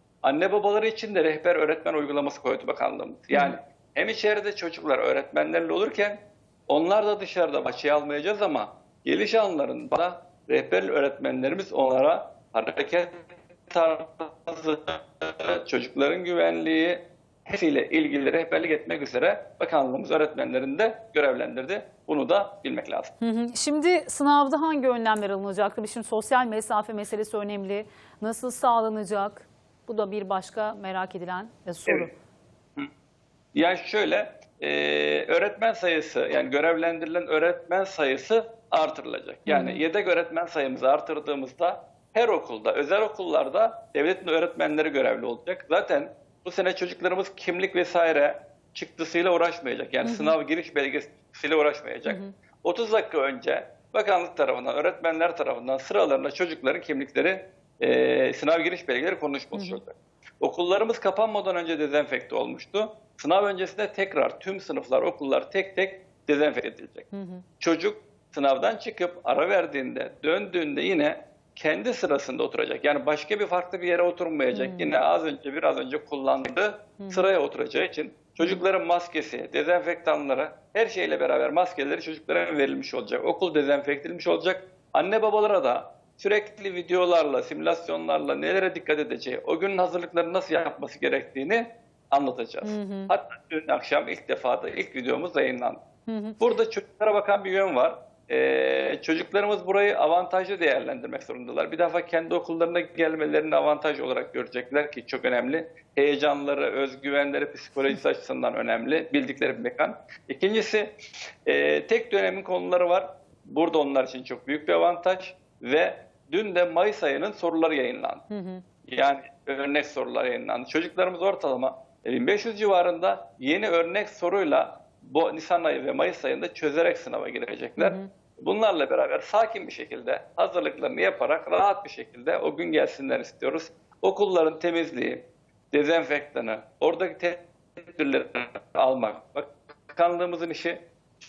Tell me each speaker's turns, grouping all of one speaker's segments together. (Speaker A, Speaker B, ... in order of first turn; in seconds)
Speaker A: 0.2-23.1, 33.5-67.1, 67.6-95.8, 96.4-118.2, 118.9-140.9
Speaker B: 3.3-3.6, 23.2-32.1, 39.5-39.8, 50.0-50.4, 52.0-52.3, 59.5-59.8, 67.1-67.4, 74.5-74.9, 77.0-77.3, 92.6-93.1, 96.1-96.4, 118.3-118.6, 127.8-128.1